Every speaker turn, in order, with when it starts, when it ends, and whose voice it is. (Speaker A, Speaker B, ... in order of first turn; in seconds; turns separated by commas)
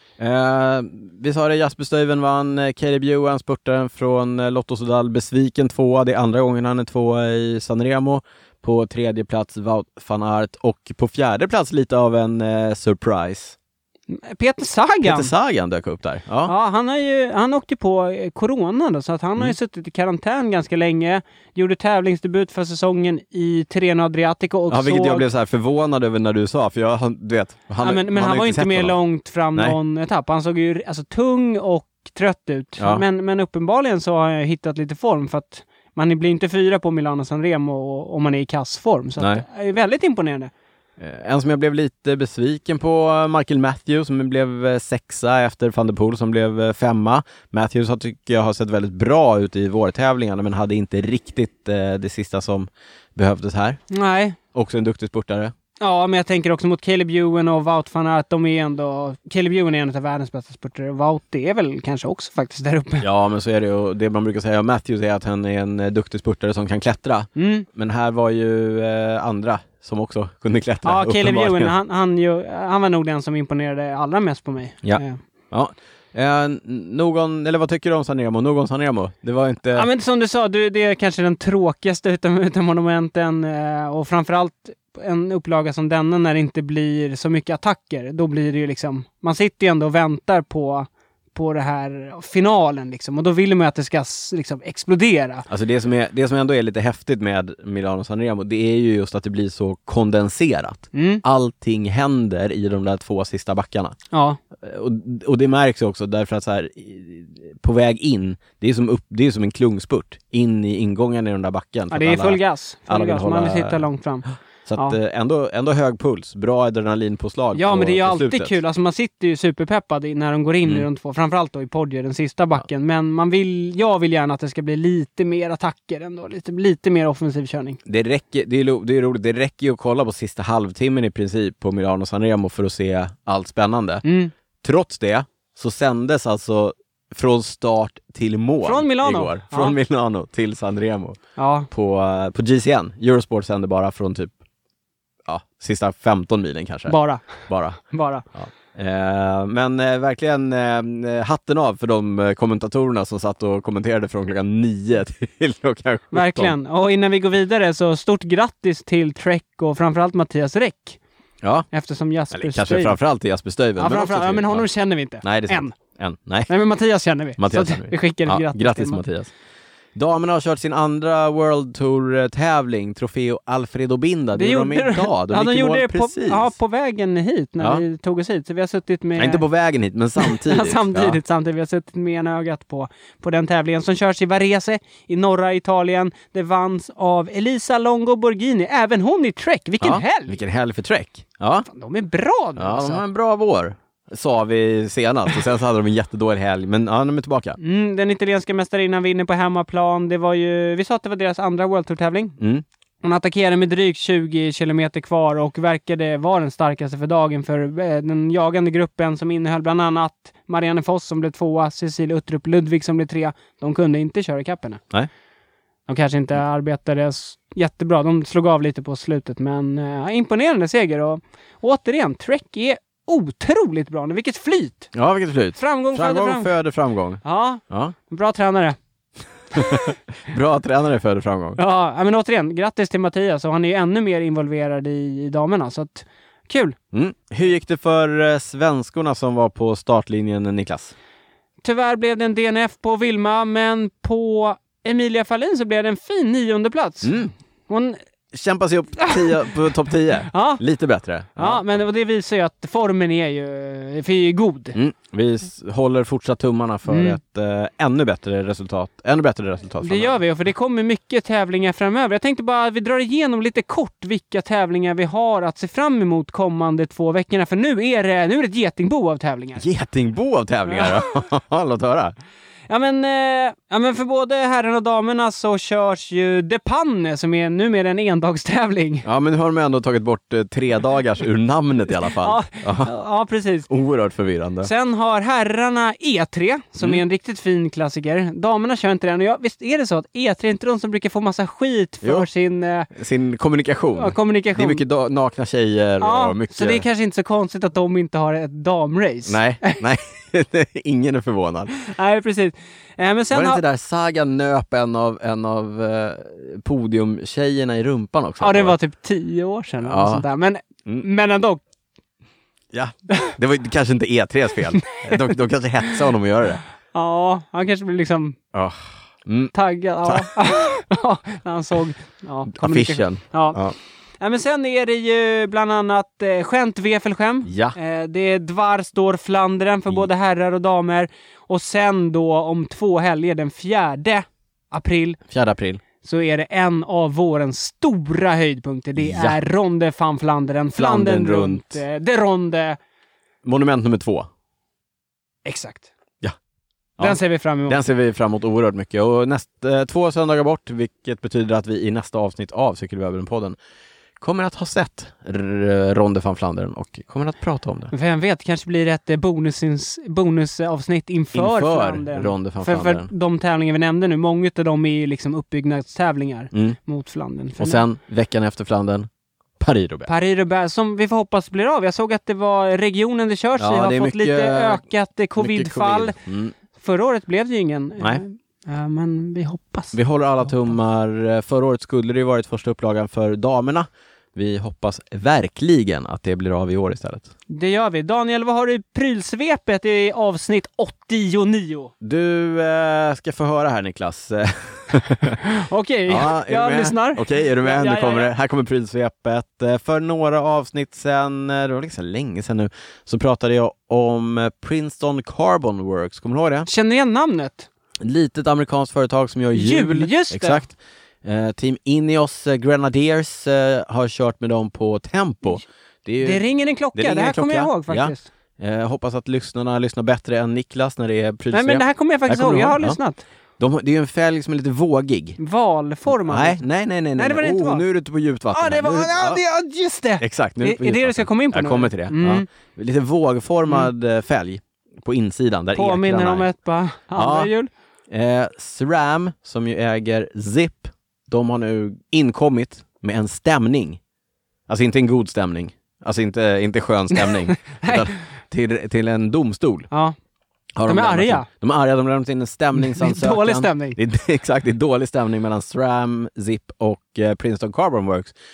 Speaker A: 0.2-13.6, Speaker B: 14.1-15.3, Speaker A: 15.0-16.5, Speaker B: 16.4-25.2, Speaker A: 24.7-28.9, Speaker B: 27.8-40.5, Speaker A: 32.8-33.0, Speaker A: 39.2-39.4, Speaker A: 41.0-53.8, Speaker B: 53.9-54.4, Speaker A: 54.5-55.5, Speaker B: 55.8-63.0, Speaker A: 63.0-71.7, Speaker B: 67.3-67.7, Speaker B: 70.8-75.2, Speaker A: 74.8-79.9, Speaker B: 79.7-95.5, Speaker A: 95.5-104.0, Speaker B: 100.9-101.2, Speaker B: 104.1-104.4, Speaker A: 104.6-113.8, Speaker B: 111.9-114.2, Speaker A: 114.7-118.5, Speaker B: 117.5-127.8, Speaker A: 127.8-134.0, Speaker B: 134.0-134.3, Speaker A: 134.6-141.2, Speaker B: 138.6-139.8, Speaker B: 141.3-141.7, Speaker A: 141.7-144.3, Speaker A: 145.3-146.9, Speaker B: 146.9-148.2, Speaker A: 147.5-147.8, Speaker A: 148.3-156.5, Speaker B: 156.1-161.0, Speaker A: 161.4-161.7, Speaker B: 161.7-163.0, Speaker A: 162.3-164.7, Speaker B: 163.8-165.7, Speaker A: 165.2-166.5, Speaker B: 166.5-169.0, Speaker A: 167.4-169.3, Speaker A: 169.9-176.5, Speaker B: 174.3-179.4, Speaker A: 179.2-181.2, Speaker B: 180.2-190.4, Speaker A: 189.8-191.7, Speaker B: 191.7-193.0, Speaker A: 192.6-197.6, Speaker B: 197.6-202.4, Speaker B: 203.0-214.8, Speaker B: 215.9-224.9, Speaker A: 224.9-227.9, Speaker B: 225.6-226.5, Speaker B: 227.2-228.8, Speaker A: 229.5-231.6, Speaker B: 229.6-229.9, Speaker B: 231.6-236.8, Speaker A: 236.9-240.9, Speaker B: 241.6-247.2, Speaker A: 247.0-247.3, Speaker B: 247.7-248.0, Speaker A: 248.3-251.6, Speaker B: 249.1-249.4, Speaker B: 250.3-250.6, Speaker B: 251.4-254.8, Speaker A: 254.7-260.2, Speaker B: 256.9-257.2, Speaker B: 259.8-269.6, Speaker A: 269.6-272.1, Speaker B: 270.7-271.0, Speaker B: 272.7-279.1, Speaker A: 279.0-282.9, Speaker B: 282.0-283.7, Speaker A: 283.7-284.7, Speaker B: 284.6-292.9, Speaker A: 292.9-296.9, Speaker B: 293.9-294.8, Speaker B: 296.0-299.8, Speaker A: 299.2-301.8, Speaker B: 301.8-303.6, Speaker A: 303.3-308.8, Speaker B: 308.4-311.6, Speaker A: 309.8-310.2, Speaker A: 312.7-316.6, Speaker B: 315.0-315.3, Speaker B: 316.9-318.4, Speaker A: 318.5-319.5, Speaker B: 319.5-323.6, Speaker A: 320.0-320.3, Speaker A: 322.5-323.7, Speaker B: 324.2-335.2, Speaker A: 327.4-327.8, Speaker A: 335.3-335.8, Speaker B: 336.0-342.8, Speaker A: 339.0-339.4, Speaker A: 340.8-341.8, Speaker A: 343.4-344.3, Speaker B: 345.4-345.9, Speaker A: 347.0-353.6, Speaker B: 347.0-347.8, Speaker A: 354.2-357.9, Speaker B: 357.9-367.8, Speaker A: 361.3-363.1, Speaker A: 367.6-369.1, Speaker A: 369.6-370.1, Speaker B: 370.1-376.2, Speaker A: 373.6-374.8, Speaker A: 375.4-376.5, Speaker B: 376.8-379.9, Speaker A: 379.9-387.3, Speaker B: 387.5-391.9, Speaker A: 392.0-395.4, Speaker B: 395.4-398.3, Speaker A: 396.1-406.7, Speaker B: 406.7-407.7, Speaker A: 408.0-416.4, Speaker B: 409.5-410.6, Speaker B: 416.2-418.2, Speaker A: 416.9-423.0, Speaker B: 421.5-423.2, Speaker A: 423.6-425.4, Speaker B: 425.4-426.6, Speaker A: 426.1-429.4, Speaker B: 427.1-427.8, Speaker B: 428.5-432.4, Speaker A: 430.2-436.5, Speaker B: 435.7-437.7, Speaker A: 437.1-437.5, Speaker A: 438.1-444.0, Speaker A: 444.7-449.9, Speaker B: 447.1-448.1, Speaker B: 449.9-450.1, Speaker A: 450.8-458.3, Speaker B: 450.9-451.5, Speaker B: 452.8-454.0